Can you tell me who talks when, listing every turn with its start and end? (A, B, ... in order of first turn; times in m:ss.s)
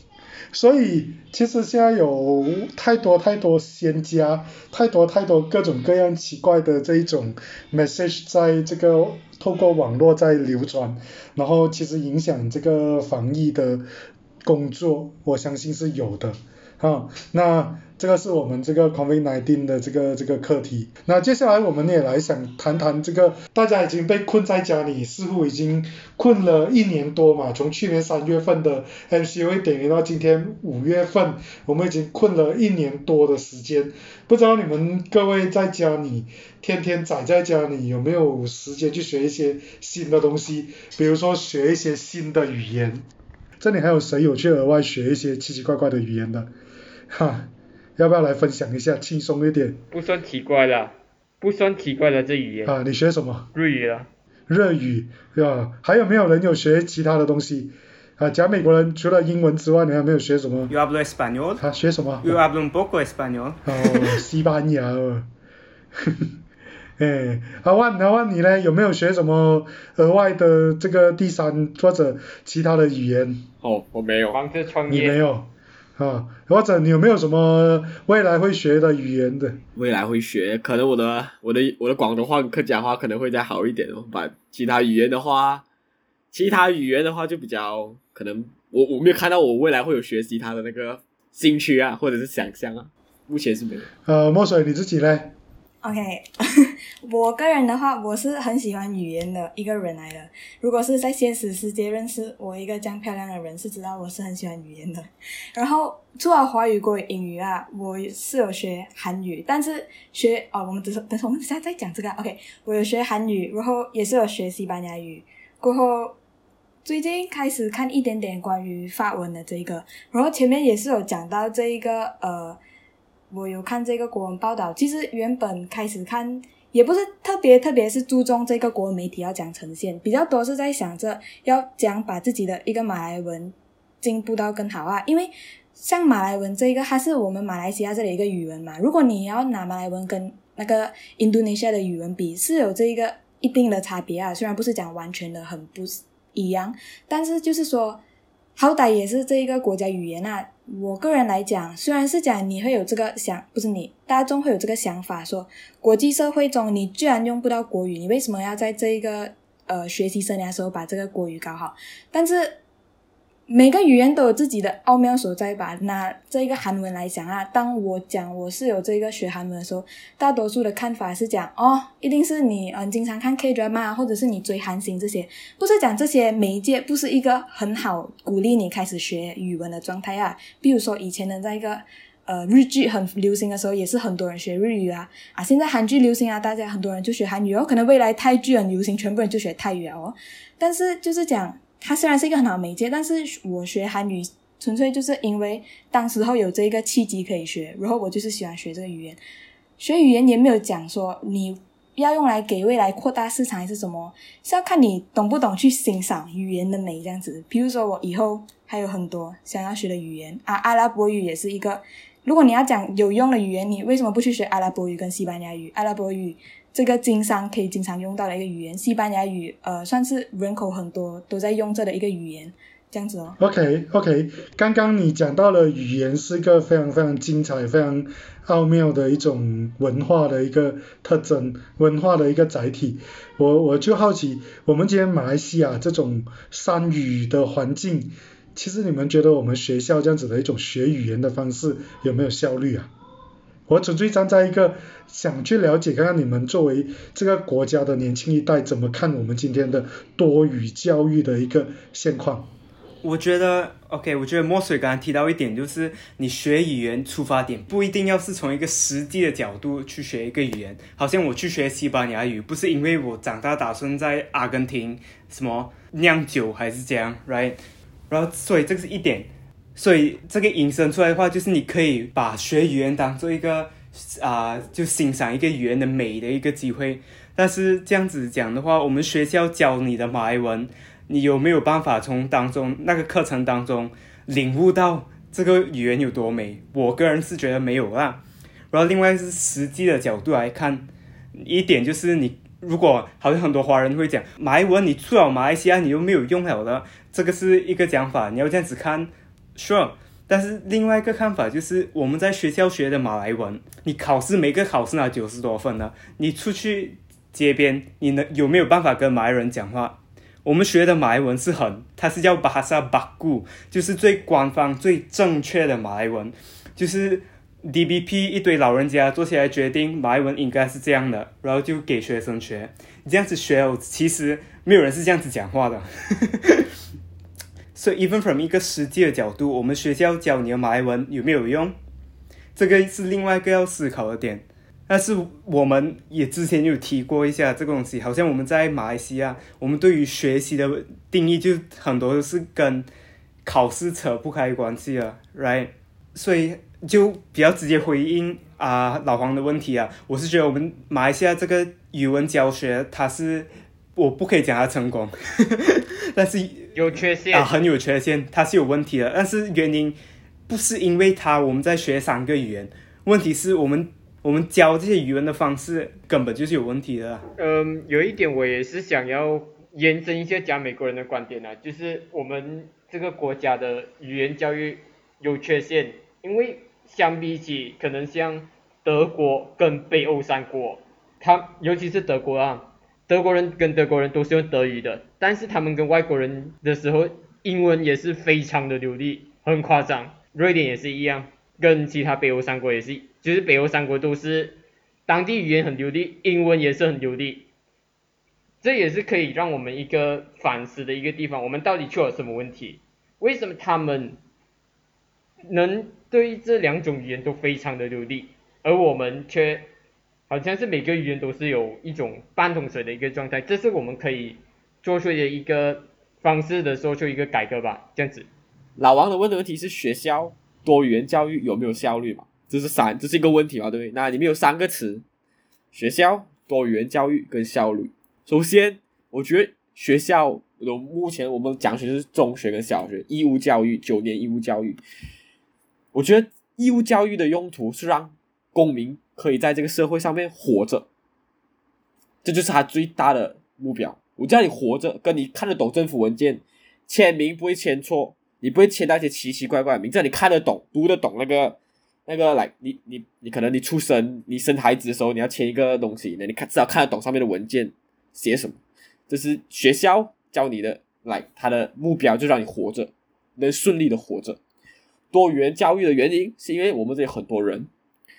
0:00.5-0:13.8 A
0:14.4-0:43.0 A
0:43.6-0:46.5 A
0:47.1-0:49.8 A
0:49.9-0:52.8 B
0:52.6-0:53.5 A
0:53.5-0:54.1 B
0:54.5-1:00.7 A
1:00.7-1:01.6 C
1:01.6-1:02.4 A
1:02.2-1:04.2 C
1:03.6-1:05.3 A
1:07.0-1:13.5 A
1:13.6-1:14.4 D
1:14.3-1:15.2 B
1:14.9-1:19.6 A
1:19.8-1:25.6 D
1:26.3-1:33.9 D
1:34.0-1:35.3 A
1:35.8-1:56.2 E
1:56.8-2:02.6 E
2:03.3-2:28.0 E
2:28.6-2:42.6 E
2:43.5-3:19.2 E
3:19.8-3:43.4 E
3:43.4-4:02.9 A
4:03.7-4:12.5 A
4:13.0-4:27.6 C
4:28.1-4:50.9 C
4:51.4-5:26.7 C
5:27.7-5:31.7 C
5:32.6-5:42.9 C
5:43.4-5:56.7 C
5:56.7-5:57.5 B
5:57.3-6:00.0 C
6:00.5-6:07.2 C
6:07.4-6:37.5 B
6:38.6-6:44.2 B
6:45.5-6:49.7 B
6:50.3-6:58.3 B
6:58.8-7:05.0 D
7:05.7-7:14.8 D
7:15.9-7:20.9 D
7:22.2-7:38.6 D
7:39.1-7:44.4 D
7:45.1-7:47.7 D